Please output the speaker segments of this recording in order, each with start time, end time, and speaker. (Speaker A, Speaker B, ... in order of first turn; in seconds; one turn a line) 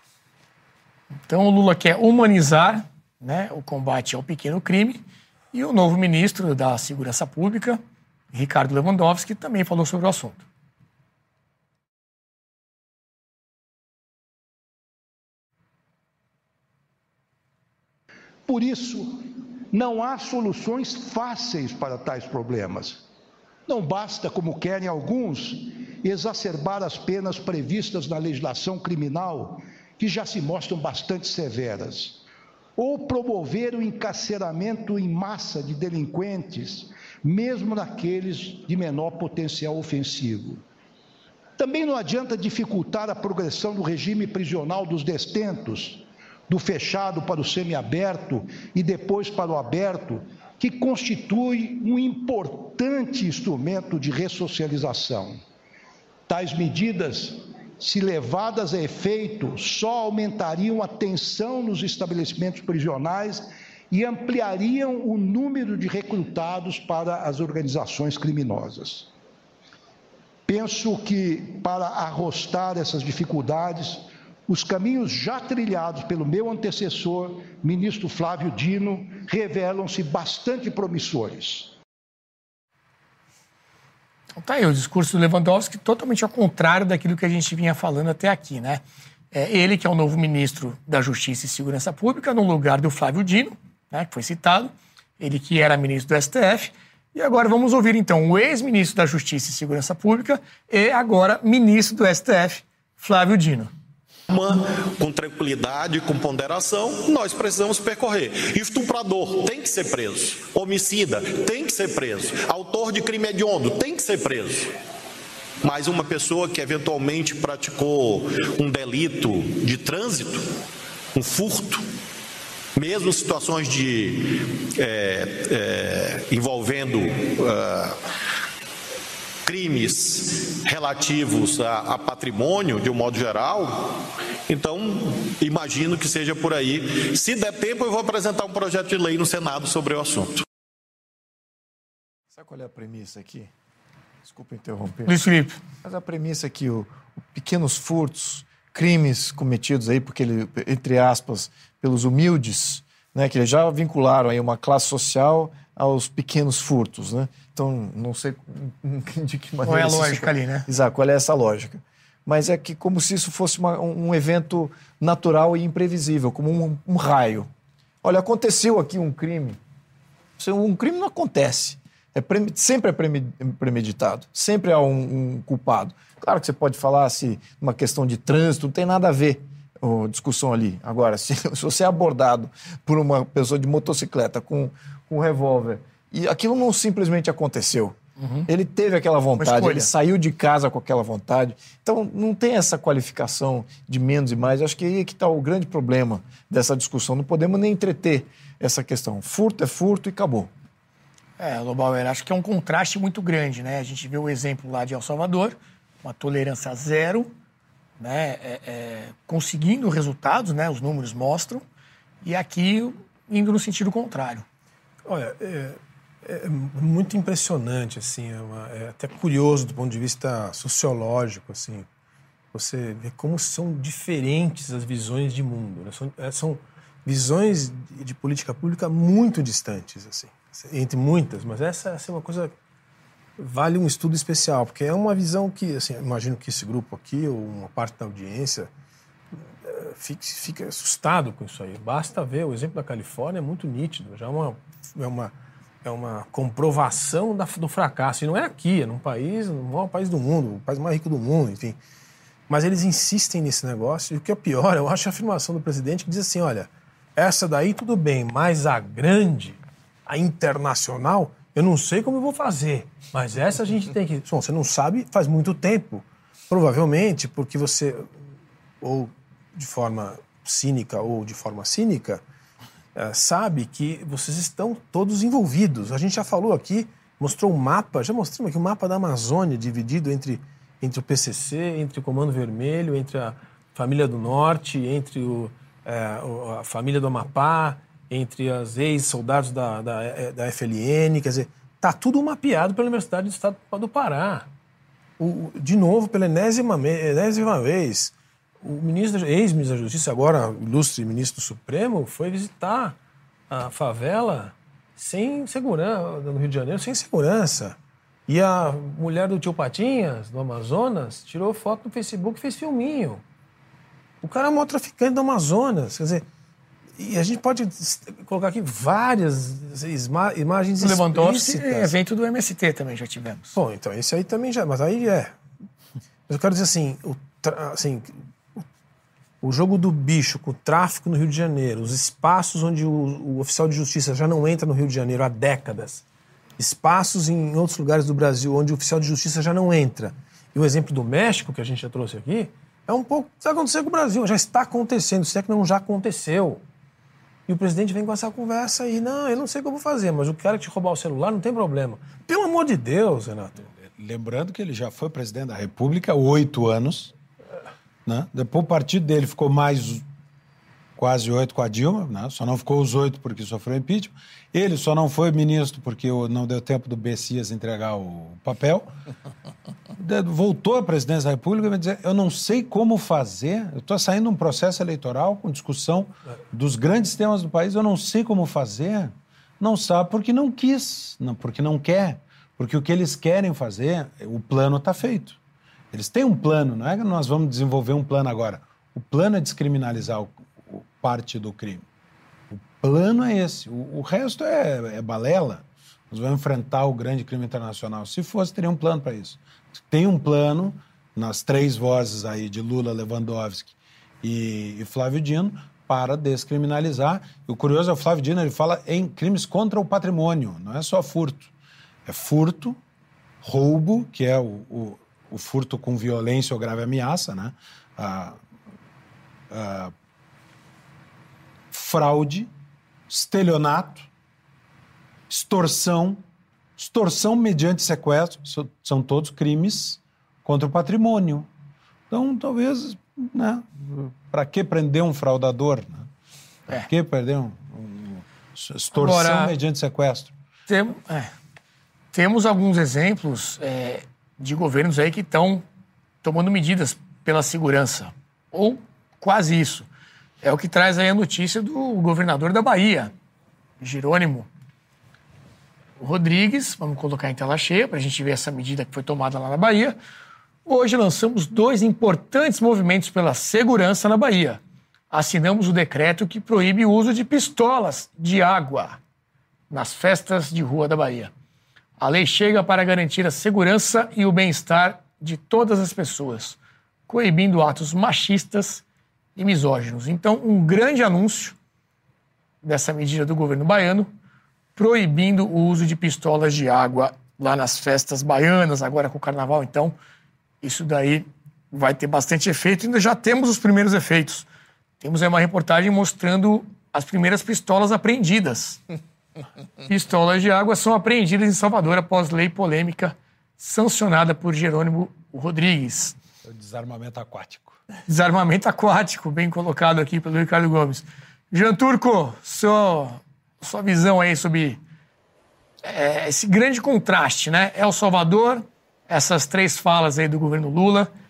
Speaker A: 1.3-7.8
Speaker A: 8.3-10.4
Speaker B: 18.5-23.1
Speaker B: 23.7-32.2
Speaker B: 32.8-40.6
Speaker B: 41.6-55.4
Speaker B: 56.3-69.1
Speaker B: 70.5-81.7
Speaker A: 84.4-103.7
Speaker C: 104.3-114.7
Speaker C: 115.6-120.5
Speaker C: 121.1-121.8
Speaker C: 122.8-128.0
Speaker C: 129.4-140.4
Speaker D: 142.3-143.5
Speaker D: 144.2-145.2
Speaker A: 145.1-145.6
Speaker D: 145.8-167.5
Speaker A: 159.7-160.7
Speaker D: 168.0-169.6
Speaker D: 170.4-188.0
Speaker A: 188.2-188.5
Speaker D: 188.5-200.5
Speaker A: 189.4-189.9
Speaker A: 201.4-207.3
Speaker A: 208.0-211.6
Speaker A: 212.2-214.4
Speaker E: 215.1-221.9
Speaker E: 222.5-232.5
Speaker E: 233.4-238.7
Speaker E: 239.6-251.8
Speaker E: 252.5-268.1
Speaker E: 268.8-272.2
Speaker E: 272.9-294.5
Speaker E: 295.2-303.0
Speaker E: 303.5-313.2
Speaker E: 314.2-316.2
Speaker E: 317.0-321.9
Speaker A: 320.8-323.6
Speaker E: 323.5-325.4
Speaker E: 326.3-328.6
Speaker E: 329.4-336.0
Speaker E: 336.6-346.6
Speaker E: 347.5-353.7
Speaker F: 353.8-357.1
Speaker F: 358.1-360.0
Speaker F: 361.0-368.9
Speaker F: 370.0-385.4
Speaker F: 385.9-391.9
Speaker F: 392.5-411.5
Speaker F: 412.1-412.8
Speaker F: 413.4-418.4
Speaker F: 419.5-419.9
Speaker F: 421.7-422.5
Speaker F: 423.1-424.1
Speaker F: 425.3-426.2
Speaker F: 426.8-431.5
Speaker F: 432.1-436.1
Speaker F: 436.7-440.3
Speaker A: 438.9-439.5
Speaker A: 440.7-441.3
Speaker A: 442.1-445.6
Speaker A: 446.2-449.9
Speaker A: 450.4-453.1
Speaker A: 453.8-454.5
Speaker A: 456.0-460.0
Speaker A: 460.7-469.0
Speaker A: 469.7-471.3
Speaker A: 472.0-476.6
Speaker A: 477.1-478.8
Speaker A: 479.4-481.6
Speaker A: 482.6-484.1
Speaker A: 484.8-490.0
Speaker A: 490.6-494.5
Speaker A: 495.0-498.8
Speaker A: 499.9-506.1
Speaker F: 506.4-507.8
Speaker A: 508.1-514.8
Speaker A: 515.9-521.1